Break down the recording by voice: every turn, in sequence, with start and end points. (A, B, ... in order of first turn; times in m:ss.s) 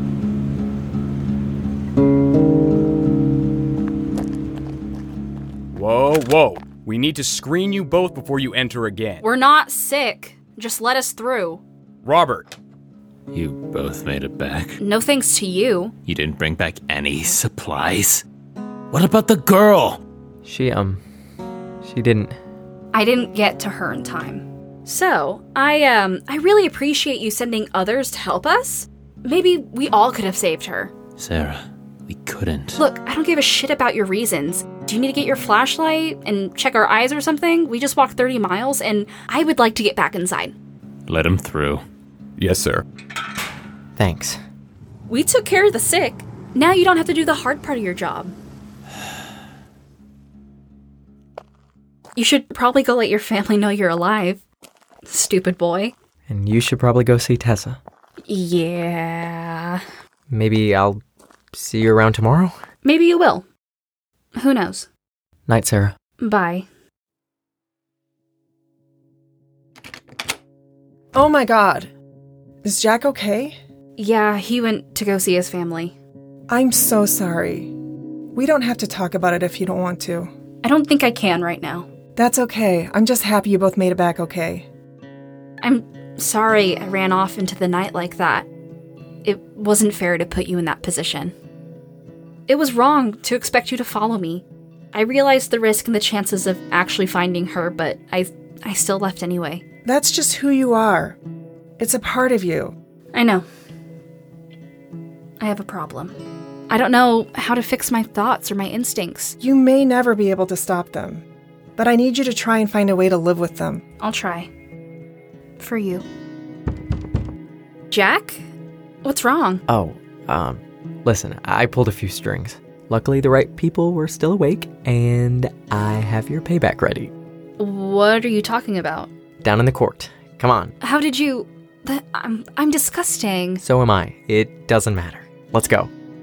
0:05.7-0:09.2 A
0:09.2-0:11.6 B
0:12.0-0:12.5 A
0:13.3-0:14.8 C
0:14.8-0:15.9 B
0:16.1-0:18.2 C
0:18.9-0:20.0 C
0:20.4-0:21.0 D
0:21.8-0:22.4 D
0:22.9-0:30.9 B
0:31.2-0:32.8 C
0:32.8-0:40.6 B
0:41.1-0:41.8 C
0:42.4-0:42.8 A
0:44.0-0:44.4 D
0:45.1-0:48.3 B
0:52.2-0:54.4 B
0:55.0-0:55.9 B
0:56.3-0:57.8 D
0:58.3-0:59.8 B
1:00.3-1:01.0 D
1:01.5-1:02.6 D
1:02.8-1:03.5 B
1:04.4-1:04.9 B
1:05.5-1:06.0 D
1:06.2-1:06.7 B
1:11.1-1:11.9 E
1:12.6-1:13.6 E
1:14.0-1:16.0 B
1:16.5-1:17.7 E
1:18.4-1:20.3 E
1:20.6-1:21.9 B
1:22.2-1:24.7 E
1:25.6-1:28.5 B
1:29.2-1:31.3 B
1:32.5-1:39.6 B
1:39.8-1:41.2 E
1:41.8-1:42.7 E
1:43.1-1:43.4 B
1:45.4-1:46.2 B
1:46.7-1:49.4 B
1:49.4-1:51.2 E
1:51.8-1:53.8 E
1:54.0-1:54.5 B
1:55.6-1:56.0 B
1:57.9-1:58.4 B
1:59.0-1:59.6 B
1:59.7-2:07.1 D
2:07.6-2:09.1 B
2:09.4-2:10.7 D
2:10.8-2:13.6 B
2:13.6-2:15.9 D